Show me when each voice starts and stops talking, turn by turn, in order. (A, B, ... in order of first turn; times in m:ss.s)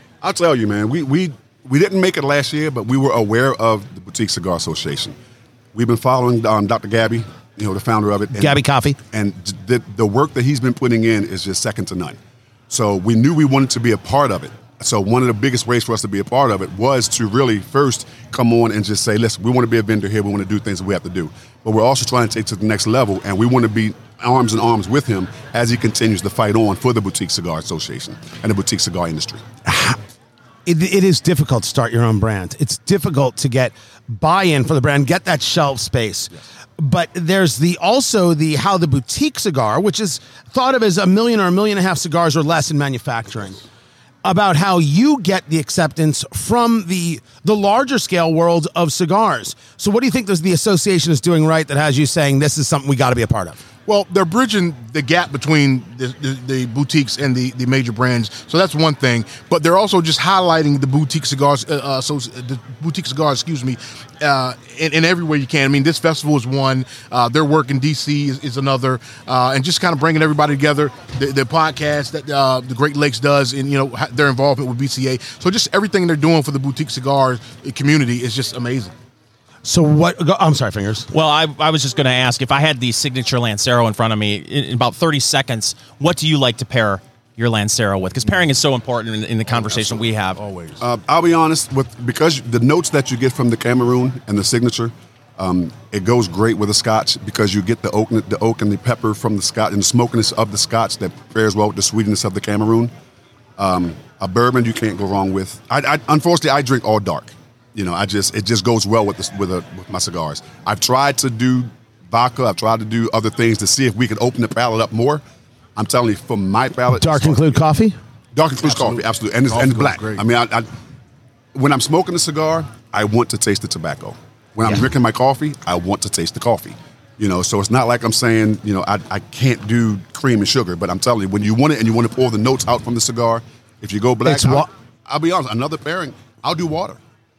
0:00.2-0:05.2 A
0:05.7-0:08.6 A
0:08.4-0:09.0 B
0:09.1-0:12.2 A
0:12.7-0:29.4 A
0:29.6-0:30.0 B
0:30.6-0:43.6 B
0:44.2-0:53.6 B
0:53.8-1:18.9 C
1:19.6-1:21.1 B
1:21.1-1:30.4 D
1:30.4-1:30.8 C
1:30.8-1:42.9 A
1:43.6-1:55.2 A
1:55.8-1:57.6 A
1:57.0-1:58.0 B
1:58.3-2:00.7 A
1:58.6-2:00.2 C
2:01.5-2:17.0 A
2:14.2-2:14.7 B